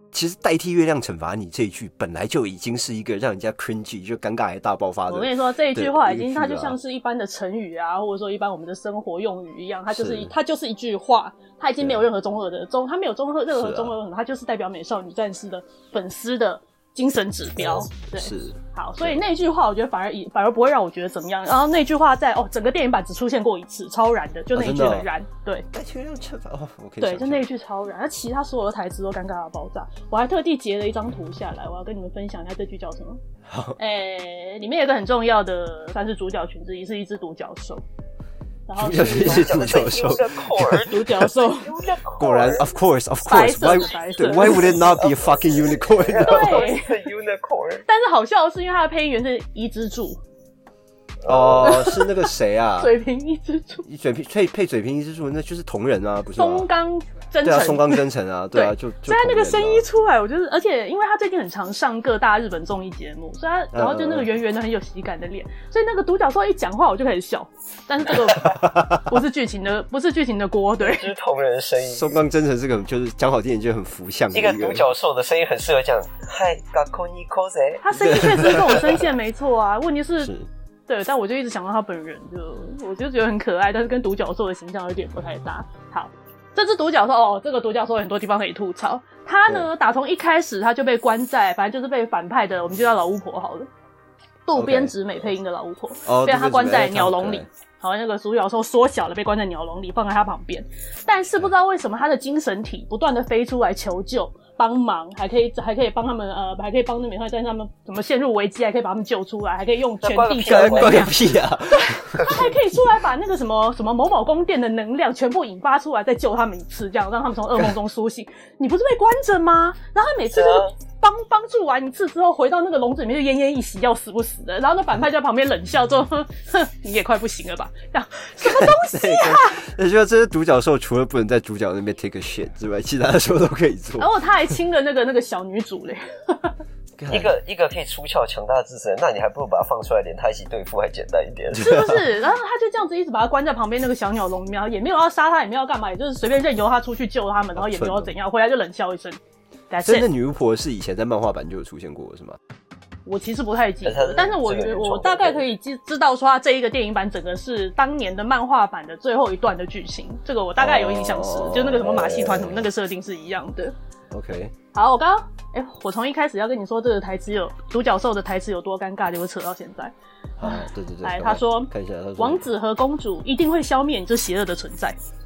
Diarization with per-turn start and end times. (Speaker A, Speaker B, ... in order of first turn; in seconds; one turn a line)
Speaker A: 0.1-6.8
Speaker B: 5.1-25.7
Speaker A: 9.9-10.3
Speaker A: 13.5-14.0
Speaker A: 17.6-19.2
Speaker A: 24.5-25.1
Speaker A: 25.7-27.4
Speaker B: 27.0-33.2
Speaker A: 33.4-33.8
Speaker B: 33.8-37.8
Speaker B: 38.7-39.7
Speaker A: 38.8-41.3
Speaker C: 39.0-42.7
Speaker B: 40.9-41.8
Speaker A: 42.2-46.7
Speaker B: 43.2-45.0
Speaker C: 44.3-47.9
Speaker B: 46.2-47.1
Speaker B: 47.9-50.2
Speaker C: 51.2-51.8
Speaker A: 51.2-52.9
Speaker B: 51.6-53.9
Speaker A: 53.8-56.7
Speaker B: 56.4-71.1
Speaker A: 57.4-59.9
Speaker A: 63.7-64.3
Speaker A: 68.5-69.1
Speaker C: 70.8-72.2
Speaker A: 71.8-74.9
Speaker C: 74.3-77.8
Speaker B: 77.8-80.3
Speaker A: 77.9-79.0
Speaker A: 80.2-80.5
Speaker B: 80.9-93.7
Speaker B: 94.5-111.2
Speaker A: 94.5-94.9
Speaker A: 96.0-97.5
Speaker C: 110.0-111.2
Speaker A: 110.5-112.6
Speaker B: 111.7-129.6
Speaker C: 120.3-120.7
Speaker A: 128.4-134.1
Speaker B: 134.0-136.6
Speaker A: 137.0-137.3
Speaker C: 137.1-141.8
Speaker A: 141.6-142.0
Speaker B: 141.6-149.2
Speaker A: 147.6-148.1
Speaker B: 149.7-150.1
Speaker A: 149.8-152.4
Speaker B: 153.1-163.7
Speaker C: 153.8-155.5
Speaker A: 160.6-162.6
Speaker A: 164.1-164.5
Speaker B: 164.7-175.0
Speaker A: 170.4-172.4